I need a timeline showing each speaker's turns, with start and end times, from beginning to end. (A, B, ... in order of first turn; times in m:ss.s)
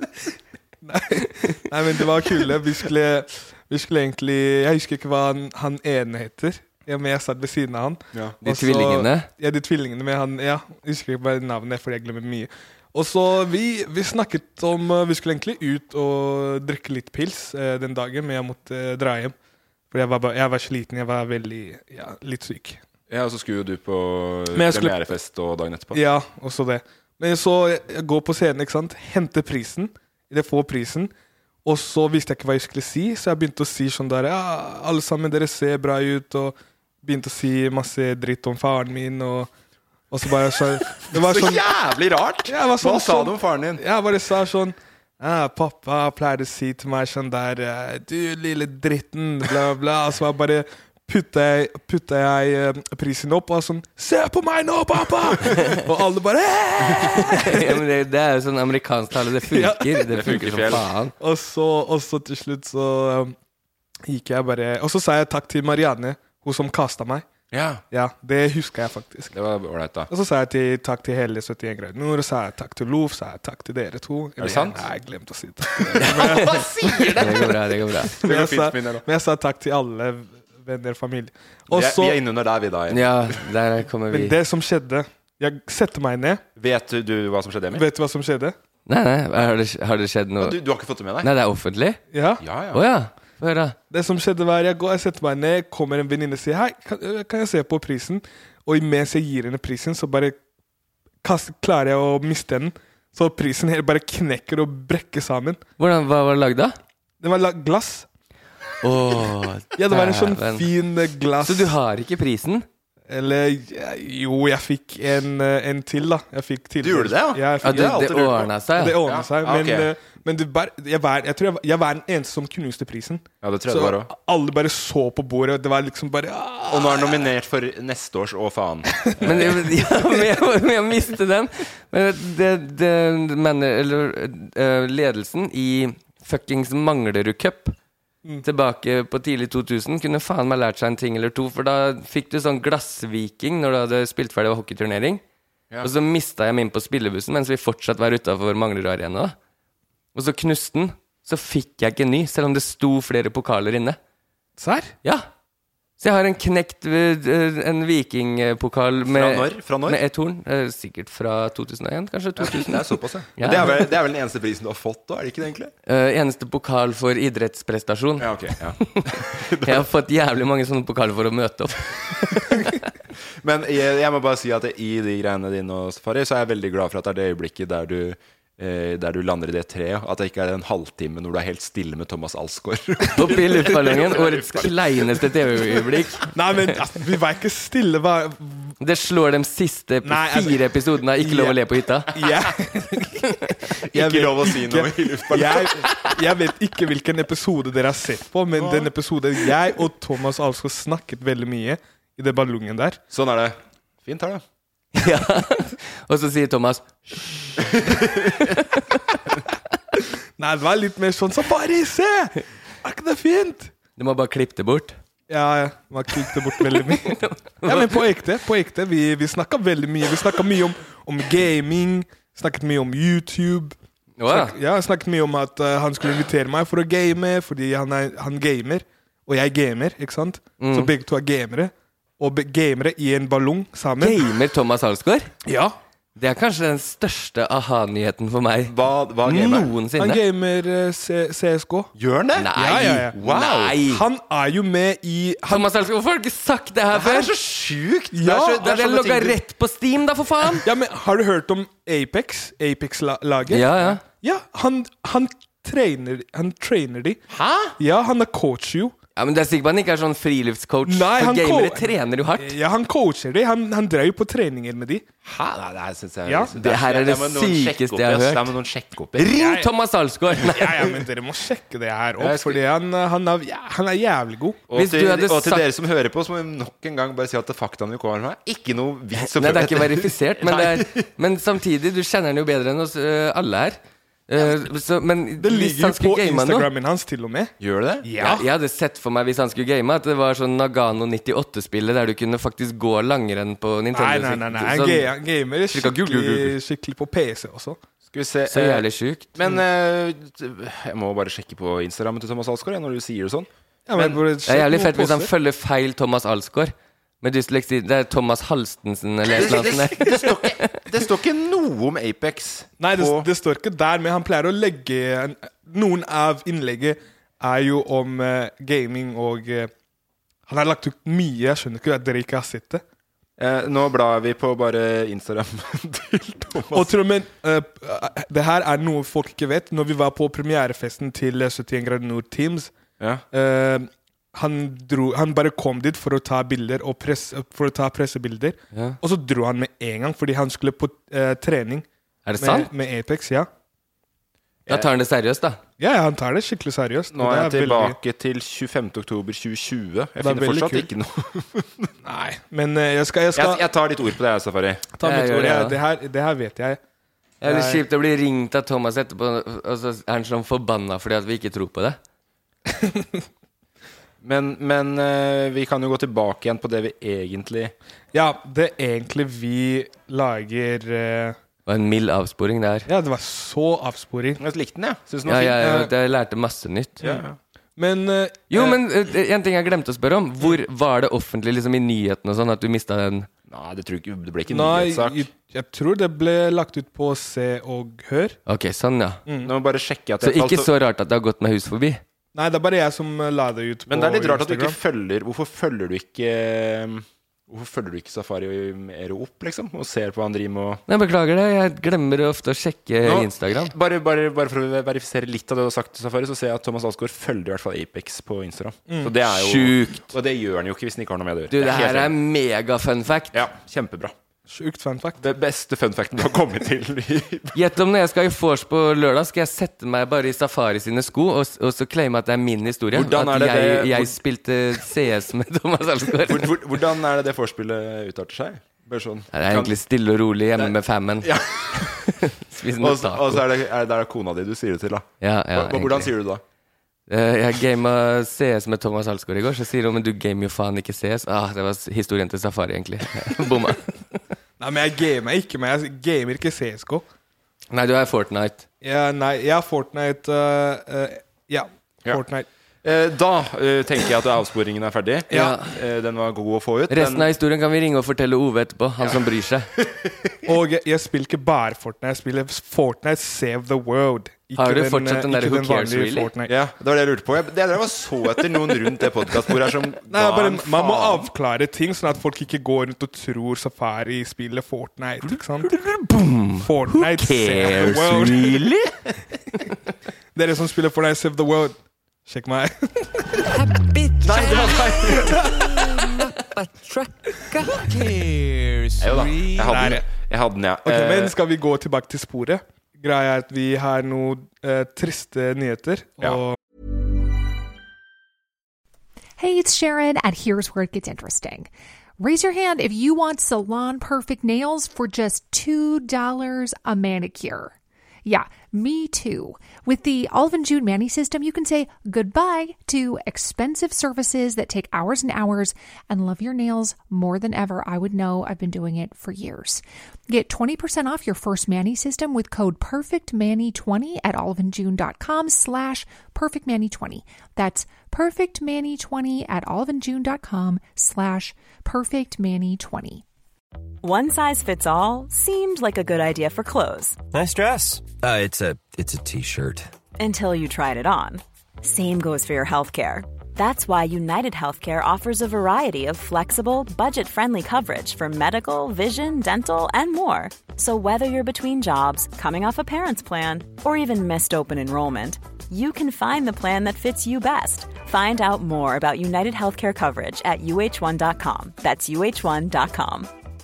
0:00.8-0:19.4 A
0:08.4-0:09.3 B
0:19.9-0:22.8 A
0:23.1-0:26.0 C
0:24.5-0:25.0 A
0:25.9-0:31.1 A
0:31.6-0:39.5 A
0:40.1-0:41.6 A
0:41.0-0:43.8 C
0:42.5-0:57.8 A
0:57.0-1:01.1 B
0:59.5-1:00.2 A
1:00.1-1:00.9 C
1:01.2-1:03.4 A
1:04.1-1:07.3 A
1:07.5-1:07.8 C
1:07.9-1:09.3 A
1:09.3-1:10.1 C
1:10.1-1:17.2 A
1:14.4-1:14.8 C
1:15.9-1:17.6 C
1:16.0-1:18.2 B
1:18.2-1:22.2 A
1:18.2-1:19.0 C
1:21.7-1:23.4 C
1:22.9-1:24.4 B
1:24.1-1:26.4 A
1:26.6-1:27.9 C
1:27.7-1:28.6 A
1:28.9-1:30.6 B
1:30.4-1:31.3 C
1:31.2-1:32.0 B
1:32.1-1:32.4 A
1:32.4-1:32.8 C
1:32.7-1:33.8 B
1:33.9-1:40.4 A
1:41.2-1:45.6 A
1:45.8-1:46.8 B
1:47.2-1:48.1 A
1:48.8-1:50.7 B
1:49.8-1:51.8 A
1:51.4-1:52.7 B
1:53.1-2:07.3 A
1:56.8-1:58.5 C
1:57.6-1:59.0 B
1:59.0-1:59.9 C
2:03.4-2:04.1 C
2:06.7-2:09.7 C
2:09.2-2:17.8 B
2:18.4-2:25.2 B
2:25.8-2:29.4 B
2:30.2-2:34.0 B
2:34.6-2:34.9 A
2:36.0-2:43.9 B
2:39.1-2:40.0 C
2:42.4-2:45.7 C
2:45.9-2:48.3 B
2:48.2-2:49.9 C
2:48.9-2:52.7 B
2:53.4-3:05.2 C
3:03.1-3:06.3 B
3:06.3-3:08.7 A
3:08.8-3:12.1 B
3:10.0-3:10.6 A
3:11.2-3:11.6 A
3:12.1-3:13.3 A
3:13.9-3:23.0 A
3:13.9-3:15.9 C
3:18.6-3:18.9 C
3:23.1-3:24.4 C
3:24.9-3:27.4 B
3:27.7-3:28.4 C
3:28.5-3:29.0 B
3:30.0-3:33.7 A
3:34.0-3:35.0 B
3:35.3-3:43.8 A
3:36.6-3:38.0 B
3:44.2-3:44.6 B
3:44.3-3:54.2 A
3:50.6-3:50.9 B
3:54.0-3:55.3 B
3:55.5-3:55.8 A
3:56.2-4:00.2 B
3:58.7-3:59.7 C
4:00.0-4:01.9 A
4:02.0-4:03.8 C
4:02.4-4:04.0 B
4:02.6-4:03.2 A
4:03.9-4:05.7 A
4:05.5-4:07.3 B
4:06.9-4:09.4 C
4:08.1-4:08.7 A
4:08.6-4:10.7 B
4:10.6-4:17.2 A
4:13.5-4:14.0 B
4:17.3-4:17.8 C
4:17.8-4:18.9 A
4:19.2-4:22.6 B
4:20.9-4:25.0 A
4:25.2-4:29.3 C
4:26.3-4:26.5 A
4:26.6-4:28.6 B
4:29.2-4:31.0 B
4:29.3-4:29.7 A
4:30.4-4:34.6 A
4:32.2-4:32.6 C
4:34.7-4:41.1 C
4:34.7-4:35.7 B
4:39.2-4:46.7 B
4:45.4-4:47.5 A
4:47.6-4:48.1 C
4:48.0-4:48.4 A
4:48.2-4:55.1 B
4:53.9-4:57.8 A
4:55.7-4:56.6 B
4:58.1-5:04.2 C
4:58.5-4:59.4 B
5:03.9-5:05.3 A
5:04.5-5:10.8 B
5:09.3-5:13.3 C
5:12.8-5:19.7 A
5:20.5-5:22.8 A
5:23.4-5:26.9 C
5:26.7-5:32.7 A
5:33.3-5:41.9 A
5:38.7-5:39.0 B
5:42.3-5:42.7 B
5:42.4-5:43.5 A
5:44.7-5:45.6 B
5:45.8-5:48.0 A
5:47.1-5:51.9 C
5:50.2-5:50.9 A
5:52.0-5:53.6 A
5:53.4-5:54.9 C
5:55.0-5:56.8 A
5:55.0-5:55.8 B
5:57.4-6:02.0 B
5:57.4-5:57.8 A
6:02.7-6:03.2 A
6:04.2-6:07.7 C
6:08.1-6:11.4 A
6:11.7-6:12.9 B
6:12.9-6:14.4 A
6:14.4-6:15.7 C
6:15.3-6:17.1 B
6:15.6-6:15.9 A
6:17.0-6:17.4 C
6:17.8-6:18.8 A
6:18.5-6:23.3 B
6:23.5-6:25.2 C
6:24.5-6:28.4 A
6:28.5-6:29.2 B
6:29.3-6:29.5 A
6:29.4-6:30.7 C
6:30.2-6:32.0 B
6:32.4-6:34.8 A
6:33.9-6:40.8 C
6:40.9-6:43.7 B
6:43.0-6:52.1 C
6:49.3-6:50.1 B
6:51.5-6:53.4 B
6:53.3-6:54.1 C
6:54.5-6:55.2 A
6:55.2-6:57.6 C
6:57.5-7:06.6 B
7:02.9-7:04.2 C
7:06.2-7:09.7 C
7:09.3-7:13.4 B
7:10.6-7:12.1 C
7:12.8-7:16.4 C
7:15.2-7:16.1 B
7:17.1-7:23.9 B
7:24.6-7:27.0 A
7:27.7-7:28.7 B
7:28.8-7:32.5 A
7:32.8-7:37.3 C
7:35.3-7:35.6 A
7:35.3-7:35.7 B
7:36.9-7:39.7 B
7:39.8-7:40.3 C
7:40.5-7:46.5 A
7:44.6-7:46.3 B
7:46.5-7:51.3 C
7:50.1-7:55.7 A
7:55.6-7:59.0 B
7:56.6-7:58.7 A
8:00.4-8:03.2 A
8:04.2-8:06.1 C
8:05.3-8:05.6 A
8:09.0-8:11.3 C
8:09.7-8:10.0 A
8:10.8-8:16.6 A
8:19.4-8:27.7 D
8:28.2-8:53.2 D
8:54.0-8:57.2 E
8:57.3-8:59.9 F
9:00.2-9:23.3 E